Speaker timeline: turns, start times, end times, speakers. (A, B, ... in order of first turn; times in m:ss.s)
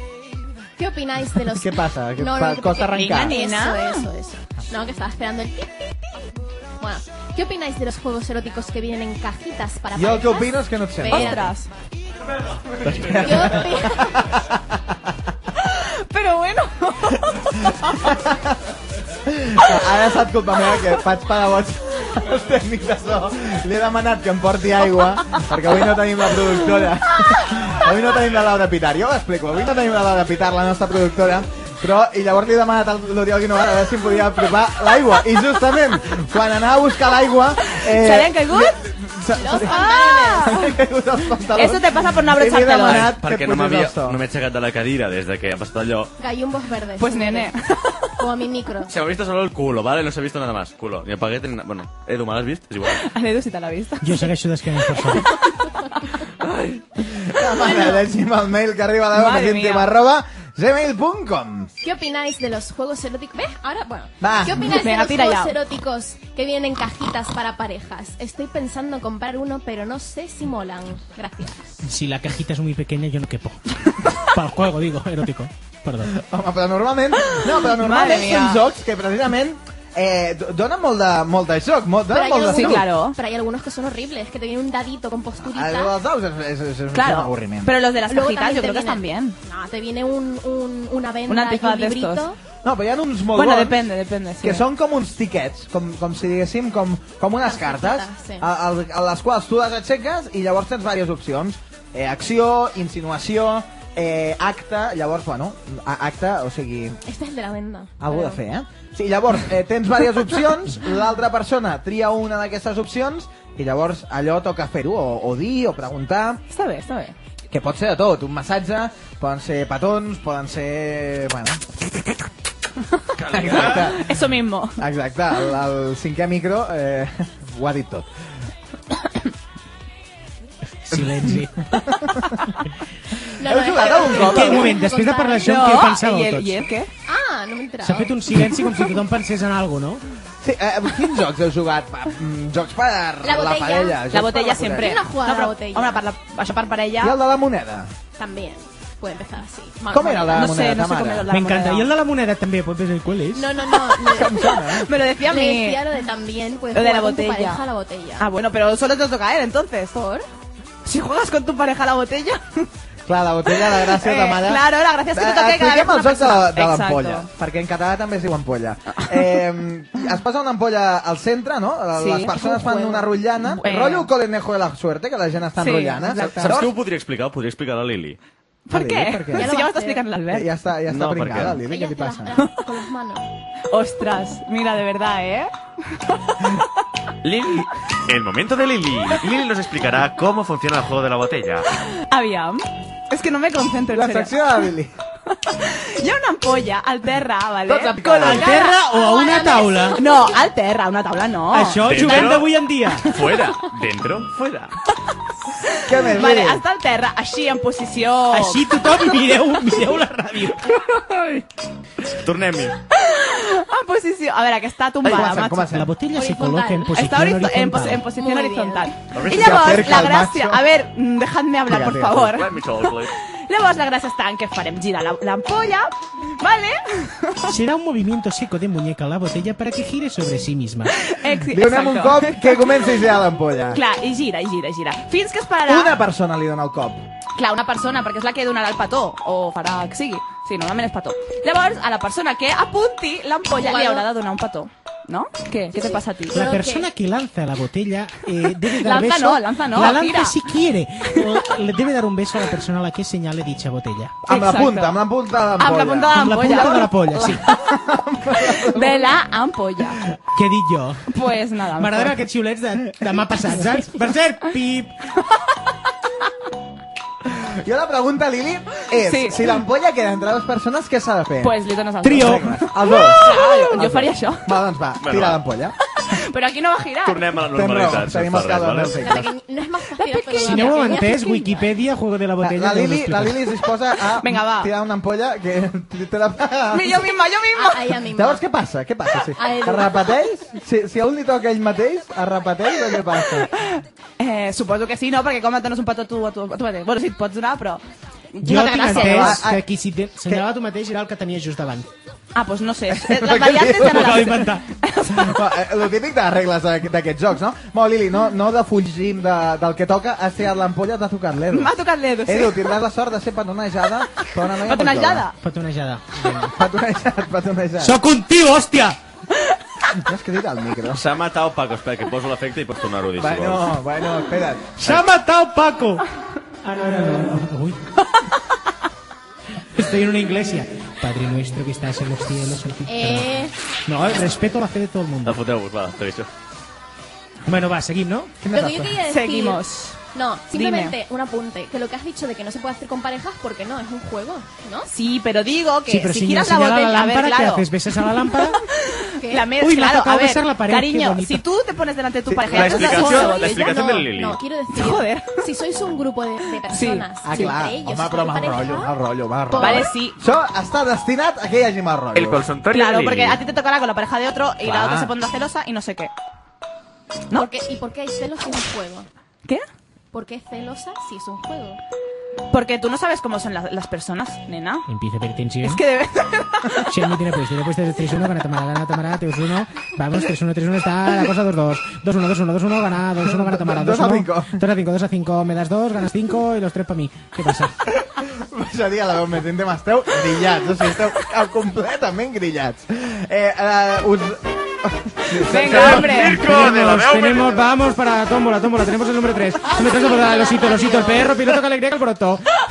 0:00.8-0:05.9 A
0:01.4-0:03.4 B
0:02.9-0:04.1 C
0:06.8-0:11.6 A
0:10.0-0:11.4 B
0:11.1-0:11.7 C
0:12.8-0:14.6 B
0:13.0-0:14.2 A
0:15.6-0:18.1 C
0:17.9-0:18.6 B
0:19.2-0:44.2 B
0:37.7-0:38.8 C
0:39.3-0:40.7 A
0:39.5-0:40.6 C
0:41.6-0:43.2 C
0:42.9-0:46.1 D
0:46.2-0:47.5 A
0:47.0-0:48.0 C
0:48.2-0:48.9 A
0:48.9-0:53.0 D
0:53.0-0:54.3 C
0:54.0-0:55.3 E
0:56.5-0:56.8 C
0:57.0-1:01.7 B
0:59.1-0:59.9 C
1:01.8-1:11.7 A
1:04.2-1:04.8 B
1:04.6-1:05.6 C
1:11.8-1:13.6 E
1:14.1-1:16.2 E
1:16.1-1:22.9 B
1:17.3-1:18.6 C
1:22.1-1:25.9 A
1:22.4-1:23.2 C
1:25.4-1:27.7 B
1:26.9-1:29.4 C
1:28.1-1:32.4 A
1:31.3-1:32.3 C
1:32.6-1:33.8 B
1:33.4-1:34.6 C
1:34.4-1:47.0 B
1:37.4-1:38.5 A
1:47.1-1:48.4 A
1:48.0-1:56.4 B
1:56.5-1:57.2 C
1:57.5-2:01.6 B
2:03.2-2:03.9 D
2:03.3-2:04.1 B
2:03.5-2:04.8 C
2:04.8-2:08.1 B
2:10.8-2:11.8 E
2:10.9-2:12.1 B
2:13.4-2:15.8 A
2:13.4-2:14.8 B
2:14.1-2:16.6 E
2:15.4-2:16.9 C
2:17.1-2:18.5 A
2:17.8-2:20.0 E
2:20.4-2:25.0 B
2:23.2-2:24.1 A
2:24.1-2:27.2 C
2:24.8-2:26.0 A
2:27.0-2:27.9 B
2:28.2-2:30.5 A
2:29.9-2:31.3 B
2:30.3-2:31.9 C
2:31.3-2:33.5 E
2:33.3-2:34.6 A
2:34.1-2:34.9 B
2:34.2-2:35.8 C
2:35.2-2:38.3 A
2:36.7-2:37.6 C
2:38.2-2:40.0 C
2:40.0-2:40.3 A
2:40.8-2:42.7 C
2:43.1-2:56.8 B
2:43.6-2:47.3 C
2:49.0-2:49.4 C
2:52.0-2:52.4 C
2:52.4-2:53.1 A
2:53.6-2:54.1 C
2:55.6-2:56.5 C
2:56.2-2:58.2 D
2:58.7-3:00.5 C
2:58.7-2:59.6 B
2:59.4-3:00.0 A
3:00.3-3:02.4 B
3:00.9-3:01.6 D
3:01.6-3:03.3 A
3:03.7-3:05.5 C
3:07.2-3:11.7 D
3:12.1-3:14.5 C
3:13.9-3:14.9 B
3:15.4-3:18.8 C
3:17.7-3:18.6 B
3:18.2-3:20.0 E
3:18.8-3:20.2 A
3:19.9-3:22.4 C
3:21.5-3:23.1 E
3:21.8-3:24.7 D
3:25.7-3:28.7 C
3:25.8-3:26.6 B
3:28.3-3:30.7 E
3:32.1-3:32.8 D
3:33.0-3:35.7 C
3:35.0-3:35.9 B
3:35.7-3:38.0 E
3:36.1-3:37.0 A
3:37.0-3:47.5 C
3:38.1-3:38.9 A
3:39.2-3:39.8 D
3:39.3-3:40.6 B
3:41.7-3:42.4 B
3:42.3-3:43.1 D
3:47.5-3:51.0 E
3:51.0-3:53.0 C
3:51.5-3:53.8 B
3:53.7-3:56.0 C
3:55.7-3:57.0 B
3:57.4-4:06.4 C
4:03.5-4:04.0 A
4:05.7-4:06.9 A
4:06.3-4:14.2 E
4:08.7-4:10.4 C
4:14.3-4:19.2 B
4:14.3-4:15.0 C
4:15.6-4:17.3 C
4:16.1-4:17.4 E
4:18.4-4:20.0 C
4:20.4-4:21.1 E
4:21.1-4:22.1 C
4:21.8-4:25.1 E
4:27.3-4:31.6 B
4:29.0-4:29.5 C
4:31.4-4:34.5 C
4:32.0-4:32.5 E
4:32.1-4:35.8 B
4:35.0-4:35.4 D
4:36.1-4:37.3 C
4:37.0-4:39.1 D
4:37.5-4:39.3 B
4:39.0-4:41.7 A
4:40.0-4:41.1 C
4:40.4-4:43.4 E
4:42.4-4:47.1 B
4:44.2-4:44.7 C
4:46.7-4:48.0 C
4:47.6-4:48.4 A
4:48.1-4:53.5 B
4:49.4-4:50.2 A
4:53.6-4:57.8 C
4:58.3-4:59.4 C
4:58.4-5:01.9 E
4:58.8-4:59.6 B
5:02.4-5:05.4 C
5:02.9-5:04.4 B
5:03.8-5:04.7 E
5:05.0-5:11.7 B
5:11.5-5:12.7 C
5:12.3-5:15.3 B
5:14.6-5:15.4 C
5:15.4-5:16.6 E
5:16.5-5:18.0 B
5:17.8-5:19.0 E
5:20.0-5:21.1 B
5:20.9-5:23.7 D
5:23.2-5:25.0 B
5:24.8-5:26.0 E
5:26.6-5:27.9 E
5:29.7-5:33.3 E
5:32.9-5:33.5 A
5:33.9-5:35.4 E
5:35.2-5:36.3 D
5:37.5-5:38.3 E
5:38.4-5:39.0 B
5:38.5-5:39.6 A
5:39.1-5:40.0 C
5:40.1-5:44.9 A
5:40.5-5:41.0 C
5:44.9-5:47.7 C
5:45.9-5:48.6 E
5:48.9-5:54.0 C
5:49.2-5:49.5 A
5:49.6-5:51.4 E
5:52.3-5:53.2 B
5:52.5-5:54.4 D
5:52.9-5:58.9 A
5:54.7-5:55.4 C
5:56.7-5:57.6 C
5:57.2-6:02.4 B
5:59.5-5:59.9 A
5:59.6-6:00.2 C
6:02.2-6:03.4 D
6:02.7-6:06.1 C
6:04.6-6:05.1 B
6:07.3-6:09.1 A
6:10.1-6:11.8 A
6:12.5-6:14.8 C
6:14.9-6:15.8 E
6:15.6-6:16.9 C
6:16.9-6:27.7 E
6:23.2-6:24.6 B
6:28.0-6:36.3 B
6:35.5-6:36.4 C
6:35.6-6:37.7 D
6:36.1-6:42.4 E
6:39.7-6:41.3 A